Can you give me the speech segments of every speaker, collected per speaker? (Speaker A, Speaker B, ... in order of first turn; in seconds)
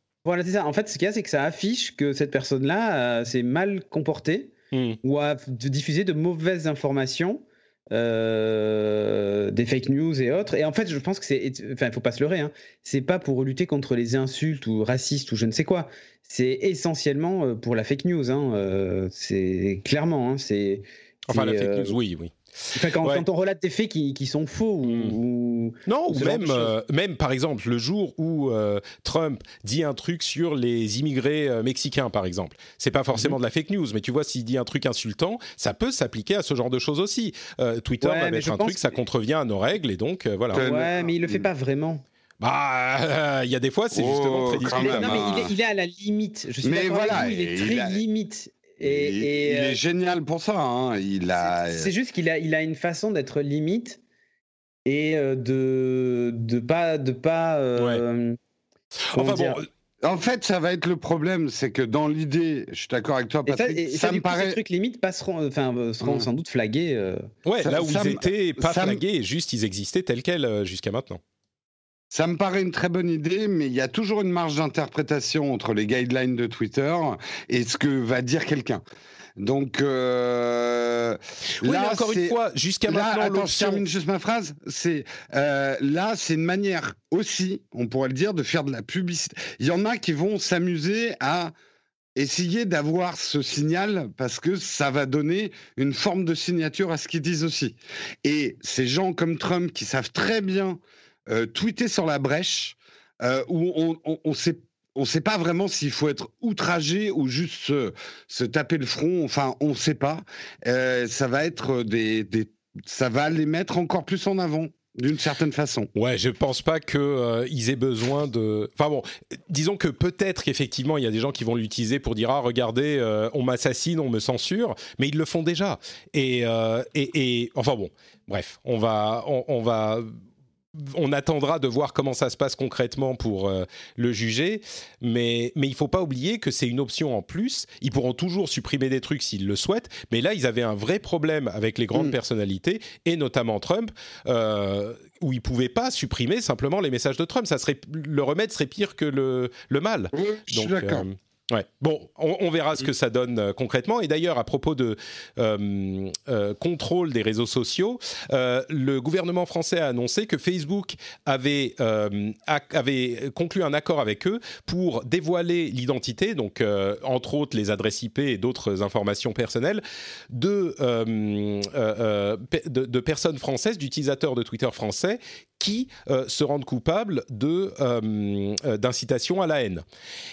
Speaker A: 0.2-21.9, 22.8-26.7, 38.0-39.0, 40.5-42.0, 44.7-49.8, 51.4-54.0, 54.9-58.4, 59.1-59.6, 63.5-67.2
Speaker B: 4.7-5.0, 21.3-22.3, 24.8-25.1, 25.9-40.6, 42.4-45.5, 57.8-58.0, 59.1-59.6, 67.5-71.2, 81.6-83.8, 116.0-130.1, 130.8-179.8
Speaker C: 40.5-41.5, 43.9-45.5, 46.6-48.0, 48.8-51.9, 60.0-64.6, 66.0-66.3, 67.6-69.0, 72.1-78.8, 79.4-82.3, 82.9-91.5, 92.2-115.9, 150.1-151.0